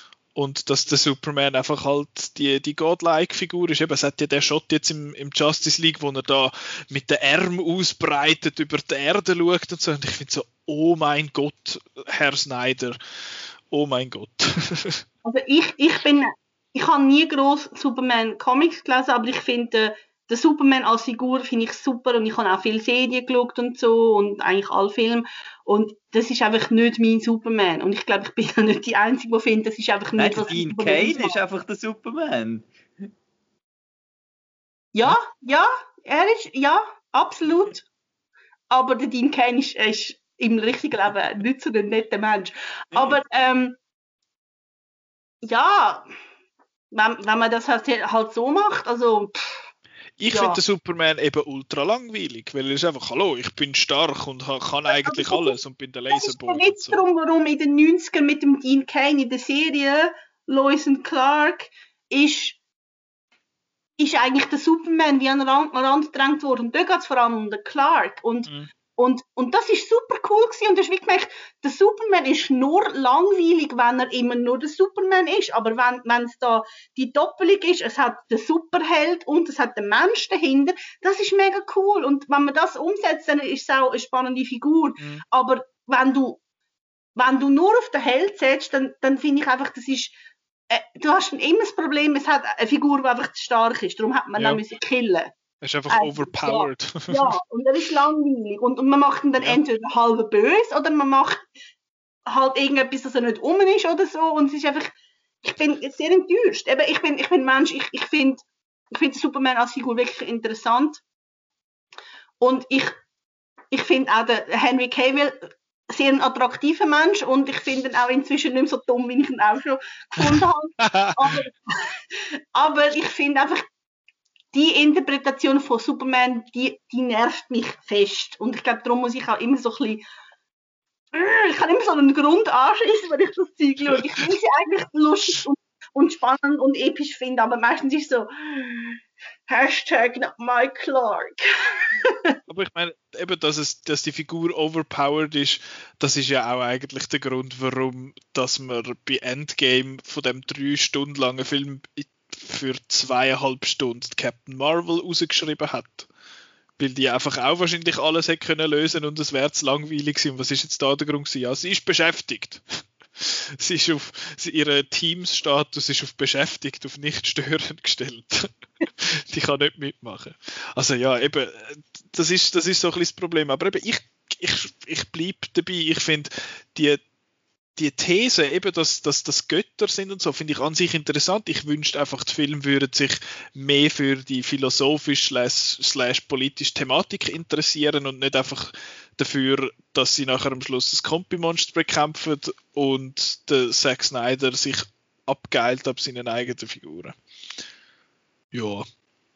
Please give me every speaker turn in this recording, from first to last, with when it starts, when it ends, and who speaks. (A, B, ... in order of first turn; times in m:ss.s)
0:00.3-0:13.0 A
0:13.7-0:15.0 A
0:15.2-0:31.4 B
0:30.2-0:33.1 C
0:34.9-0:37.8 B
0:38.7-0:43.8 B
0:45.4-0:46.0 B
0:46.9-0:49.7 B
0:50.2-0:57.0 A
0:50.3-0:50.6 B
0:54.9-0:55.6 B
0:56.1-1:02.6 B
1:04.0-1:26.4 B
1:25.0-1:25.2 A
1:27.2-1:30.1 B
1:30.7-1:35.3 B
1:34.4-1:34.6 A
1:35.6-1:37.3 A
1:35.9-1:41.4 B
1:42.3-1:51.0 B
1:52.4-1:53.0 B
1:53.7-2:03.6 B
2:00.2-2:01.4 A
2:04.5-2:10.0 B
2:11.1-2:21.4 B
2:22.5-2:36.1 A
2:36.8-2:57.0 A
2:57.8-3:17.2 A
3:18.5-3:18.8 A